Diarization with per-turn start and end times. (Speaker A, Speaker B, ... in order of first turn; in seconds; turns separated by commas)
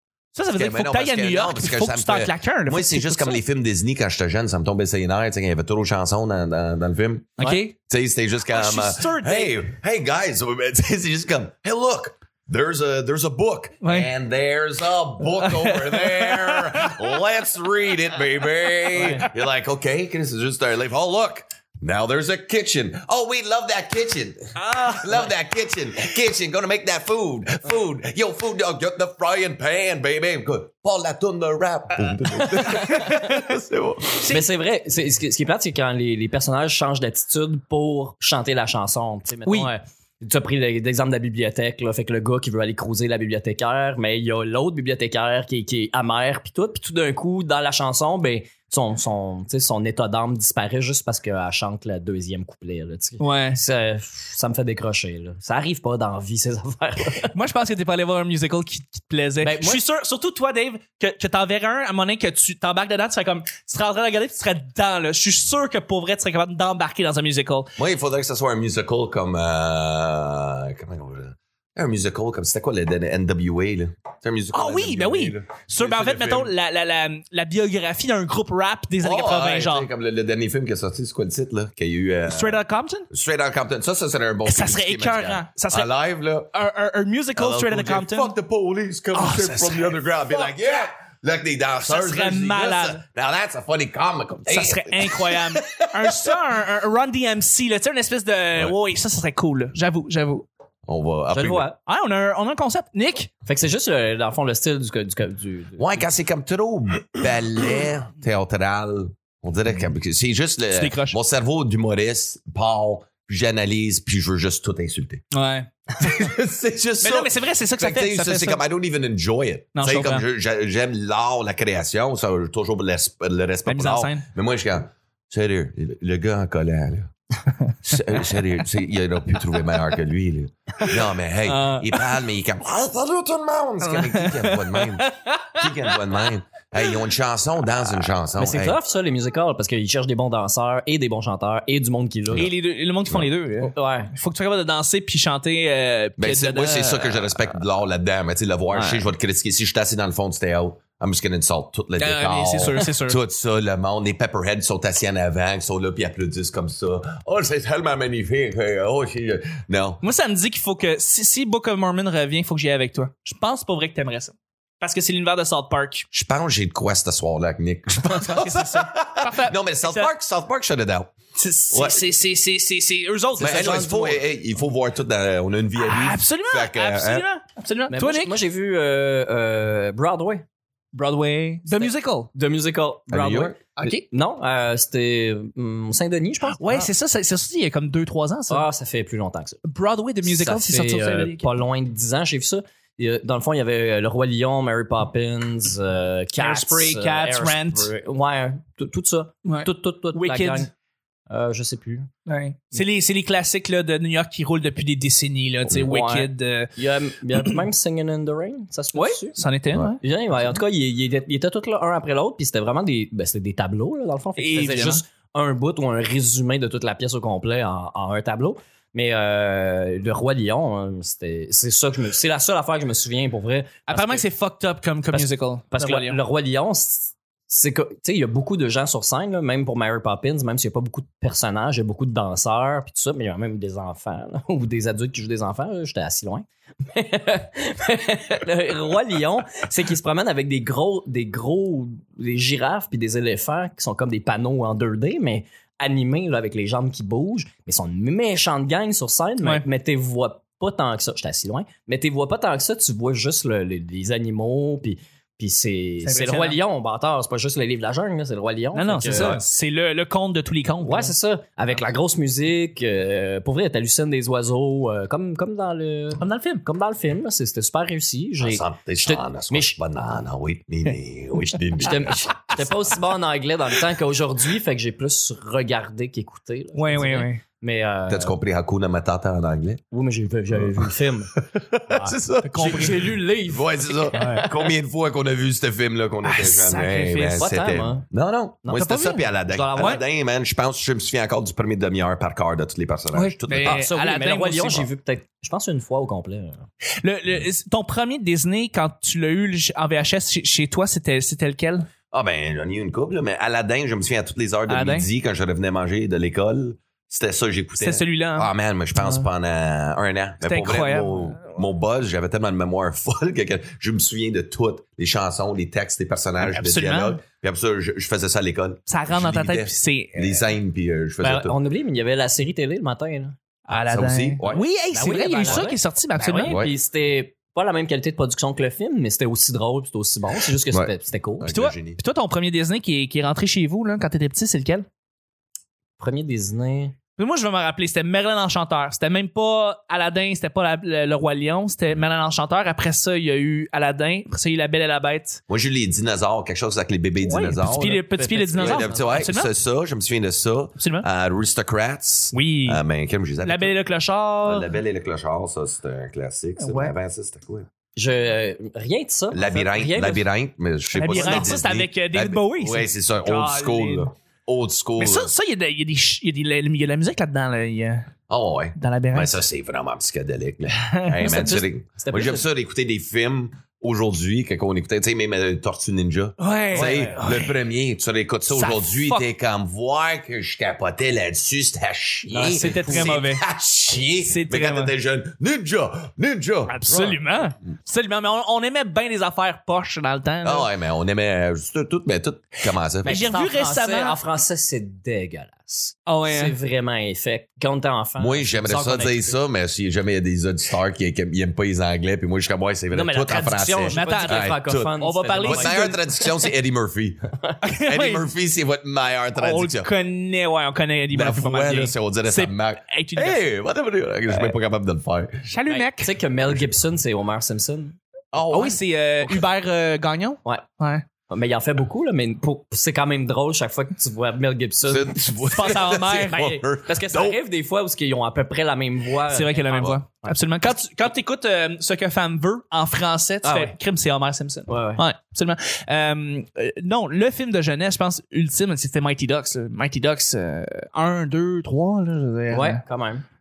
Speaker A: 0.3-3.4, Speaker B: 0.5-34.3, Speaker A: 7.4-7.7, Speaker A: 8.5-9.6, Speaker A: 13.8-14.1, Speaker A: 15.3-17.2, Speaker C: 19.0-19.2, Speaker A: 19.0-19.3, Speaker A: 24.6-25.1, Speaker A: 32.5-33.3, Speaker A: 34.2-34.5, Speaker C: 34.3-57.3, Speaker A: 53.2-53.6, Speaker A: 57.2-67.7, Speaker C: 59.4-59.8, Speaker B: 67.8-76.5, Speaker A: 74.5-79.9, Speaker B: 79.0-86.5, Speaker A: 82.3-83.1, Speaker A: 84.4-85.9, Speaker A: 86.5-88.3, Speaker B: 87.3-96.4, Speaker A: 89.1-90.5, Speaker A: 91.8-93.0, Speaker A: 94.5-100.5, Speaker B: 100.9-101.7, Speaker C: 101.3-101.8, Speaker A: 101.8-103.3, Speaker C: 103.5-106.0, Speaker B: 105.8-115.2, Speaker A: 110.7-111.2, Speaker A: 115.3-115.7, Speaker B: 116.0-127.1, Speaker A: 117.0-118.6, Speaker A: 119.7-120.2, Speaker A: 123.7-124.2, Speaker B: 127.8-138.8, Speaker C: 131.5-131.9, Speaker A: 133.8-136.1, Speaker C: 138.3-142.5, Speaker A: 142.3-147.5, Speaker C: 143.6-144.1, Speaker B: 146.2-160.0, Speaker A: 148.7-149.1, Speaker A: 152.0-153.2, Speaker A: 160.0-166.1, Speaker B: 166.1-171.1, Speaker A: 168.0-170.1, Speaker A: 171.3-174.2, Speaker B: 171.7-172.1, Speaker B: 173.4-177.2, Speaker A: 175.8-178.4, Speaker C: 177.9-180.4, Speaker A: 180.9-182.3, Speaker C: 181.7-186.9, Speaker B: 183.1-183.7, Speaker A: 183.8-184.0, Speaker A: 186.6-188.7, Speaker C: 188.5-189.6, Speaker A: 189.6-191.5, Speaker C: 190.2-200.7, Speaker A: 196.4-197.9, Speaker A: 199.4-200.7, Speaker C: 201.3-202.1, Speaker A: 202.2-206.7, Speaker C: 205.7-209.4, Speaker A: 208.9-210.0, Speaker C: 210.0-224.2, Speaker A: 214.4-215.0, Speaker A: 223.9-226.2, Speaker C: 225.1-259.4, Speaker A: 256.0-256.6, Speaker A: 258.7-261.1, Speaker C: 260.8-269.7, Speaker A: 266.2-266.6, Speaker B: 268.4-272.5, Speaker C: 271.8-278.4, Speaker A: 276.7-277.4, Speaker B: 278.1-279.8, Speaker C: 279.9-281.4, Speaker B: 280.6-293.9, Speaker C: 281.9-284.5, Speaker A: 282.4-283.1, Speaker A: 284.1-284.5, Speaker A: 286.2-287.4, Speaker C: 287.3-288.0, Speaker C: 288.6-290.0, Speaker A: 288.8-289.2, Speaker A: 293.1-294.9, Speaker C: 293.6-296.6, Speaker A: 297.0-301.9, Speaker B: 302.1-321.6, Speaker A: 304.7-305.1, Speaker A: 307.8-308.5, Speaker A: 310.4-311.6, Speaker A: 316.4-317.2, Speaker A: 318.9-320.5, Speaker C: 321.2-323.3, Speaker A: 323.7-326.6, Speaker B: 323.9-324.6, Speaker C: 324.9-331.5, Speaker B: 326.4-326.7, Speaker B: 330.7-332.0, Speaker A: 331.5-334.9, Speaker C: 336.0-336.9, Speaker A: 337.2-345.4, Speaker B: 345.5-353.7, Speaker A: 347.2-349.5, Speaker C: 347.8-349.2, Speaker A: 350.8-351.1, Speaker A: 352.3-352.8, Speaker A: 353.4-354.7, Speaker B: 354.4-357.7, Speaker A: 356.6-356.9, Speaker C: 357.9-360.2, Speaker B: 359.3-365.3, Speaker A: 360.9-364.1, Speaker C: 361.1-361.4, Speaker A: 365.0-368.1, Speaker B: 368.3-387.2, Speaker A: 368.8-369.3, Speaker A: 370.8-371.6, Speaker C: 371.2-372.4, Speaker A: 376.4-377.6, Speaker C: 376.7-377.1, Speaker A: 378.5-379.2, Speaker C: 382.3-383.2, Speaker A: 382.5-383.4, Speaker A: 384.2-384.9, Speaker A: 386.7-390.7, Speaker B: 390.4-393.2, Speaker A: 393.0-394.2, Speaker C: 393.0-399.4, Speaker A: 396.1-396.6, Speaker B: 398.2-407.2, Speaker C: 402.9-405.9, Speaker A: 403.9-406.3, Speaker A: 407.6-408.3, Speaker B: 407.8-409.9, Speaker A: 409.4-413.5, Speaker B: 411.1-415.5, Speaker A: 415.5-416.1, Speaker C: 415.7-418.0, Speaker B: 418.3-418.8, Speaker A: 418.5-421.0, Speaker C: 421.3-425.2, Speaker B: 424.8-427.4, Speaker A: 425.4-426.7, Speaker C: 426.9-430.4, Speaker A: 429.3-442.8, Speaker B: 429.7-430.0, Speaker C: 433.4-433.7, Speaker C: 434.7-435.0, Speaker C: 442.5-443.2